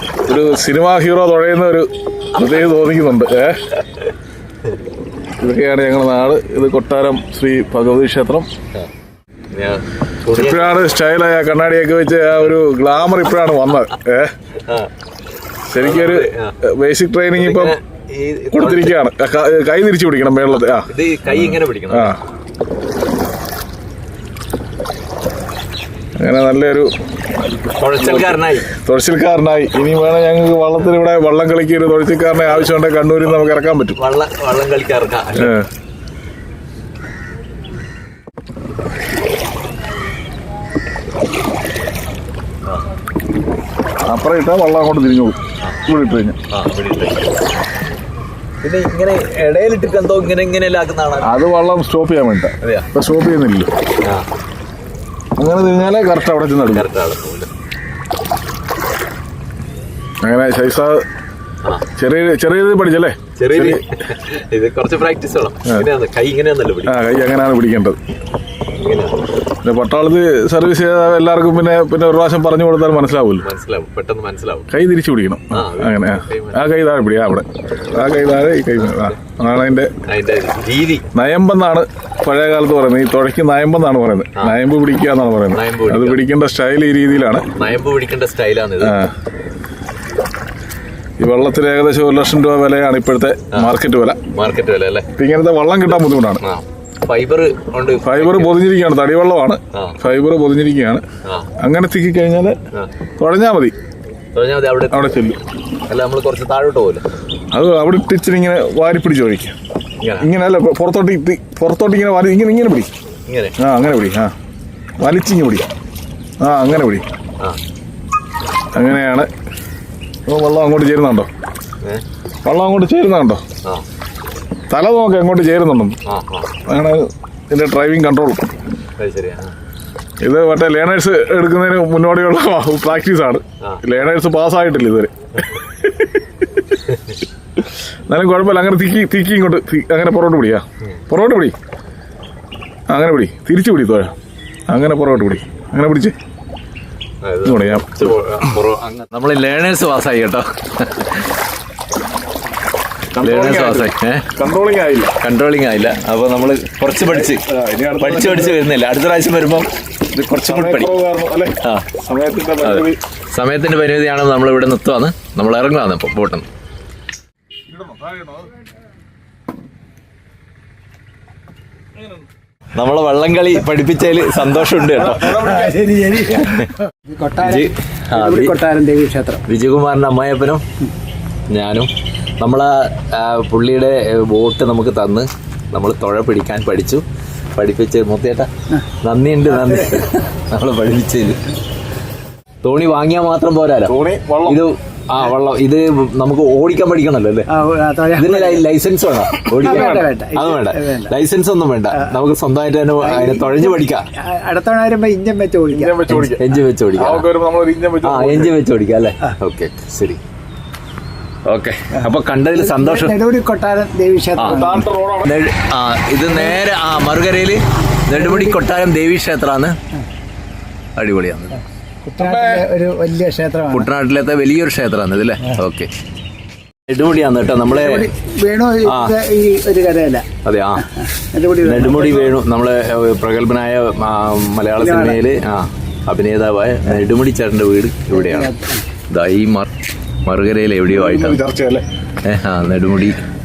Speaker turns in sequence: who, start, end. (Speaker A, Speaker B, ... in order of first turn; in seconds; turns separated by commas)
Speaker A: 0.2-3.6, Speaker B: 0.3-0.6, Speaker B: 2.3-2.6, Speaker A: 5.4-8.5, Speaker B: 9.5-10.8, Speaker A: 10.3-14.3, Speaker B: 14.6-14.9, Speaker A: 15.7-17.7, Speaker B: 15.8-16.6, Speaker B: 17.3-18.9, Speaker A: 18.5-22.2, Speaker B: 20.7-22.1, Speaker A: 26.2-26.9, Speaker B: 27.7-28.7, Speaker A: 28.0-34.0, Speaker B: 32.5-32.7, Speaker B: 33.9-35.5, Speaker A: 35.4-35.7, Speaker A: 44.0-46.4, Speaker B: 46.5-47.4, Speaker B: 48.6-51.3, Speaker A: 51.2-53.7, Speaker B: 52.6-52.9, Speaker A: 55.4-56.9, Speaker B: 56.7-57.5, Speaker A: 60.2-61.0, Speaker A: 62.0-63.8, Speaker B: 63.4-67.0, Speaker A: 66.8-68.0, Speaker B: 68.7-69.2, Speaker A: 69.6-73.4, Speaker B: 73.4-74.7, Speaker A: 74.7-79.9, Speaker B: 75.5-76.7, Speaker B: 78.8-79.2, Speaker B: 80.0-81.1, Speaker A: 81.1-87.5, Speaker B: 85.5-86.2, Speaker B: 87.5-89.0, Speaker A: 88.8-89.1, Speaker A: 91.2-94.3, Speaker B: 94.3-95.1, Speaker A: 95.2-96.4, Speaker B: 96.4-98.6, Speaker A: 98.0-101.0, Speaker B: 99.7-100.0, Speaker B: 101.2-101.5, Speaker A: 101.6-102.6, Speaker A: 103.2-103.7, Speaker B: 104.3-105.2, Speaker A: 104.9-105.4, Speaker B: 105.9-107.0, Speaker A: 107.5-109.5, Speaker B: 110.0-110.3, Speaker A: 110.2-112.9, Speaker B: 113.3-113.5, Speaker A: 113.6-114.3, Speaker A: 115.0-115.7, Speaker A: 116.4-117.0, Speaker A: 118.7-119.3, Speaker A: 120.3-121.3, Speaker A: 122.4-123.4, Speaker A: 124.7-126.0, Speaker B: 126.0-126.5, Speaker A: 126.7-128.5, Speaker B: 129.0-129.5, Speaker A: 130.2-136.2, Speaker B: 136.8-137.2, Speaker A: 138.1-141.5, Speaker A: 142.9-144.1, Speaker A: 144.7-146.1, Speaker B: 147.2-151.3, Speaker A: 147.4-148.0, Speaker A: 153.1-155.1, Speaker B: 153.2-154.3, Speaker B: 155.2-157.4, Speaker A: 157.0-158.6, Speaker B: 158.0-160.9, Speaker A: 160.4-163.0, Speaker B: 162.6-166.5, Speaker A: 167.7-168.5, Speaker B: 172.7-175.5, Speaker A: 174.9-175.7, Speaker C: 175.3-179.4, Speaker B: 176.2-176.7, Speaker B: 177.4-178.6, Speaker B: 179.4-180.6, Speaker B: 181.5-188.5, Speaker B: 189.0-191.4, Speaker B: 192.6-197.5, Speaker A: 193.8-194.6, Speaker C: 197.5-198.6, Speaker B: 198.2-204.1, Speaker A: 199.5-200.1, Speaker C: 199.6-201.1, Speaker C: 203.0-206.1, Speaker A: 205.7-208.6, Speaker B: 206.1-207.3, Speaker B: 208.0-210.2, Speaker B: 211.5-213.1, Speaker C: 211.9-214.8, Speaker A: 214.4-215.3, Speaker B: 215.2-219.8, Speaker C: 218.1-218.6, Speaker B: 221.0-221.6, Speaker C: 222.0-223.9, Speaker A: 222.2-222.7, Speaker B: 223.7-225.9, Speaker B: 226.9-228.1, Speaker C: 227.6-230.2, Speaker B: 228.8-229.2, Speaker B: 230.4-231.0, Speaker C: 231.0-232.3, Speaker B: 231.6-238.5, Speaker C: 234.8-235.2, Speaker C: 238.1-238.8, Speaker B: 239.1-239.7, Speaker B: 240.2-241.4, Speaker A: 240.9-241.8, Speaker B: 242.2-243.2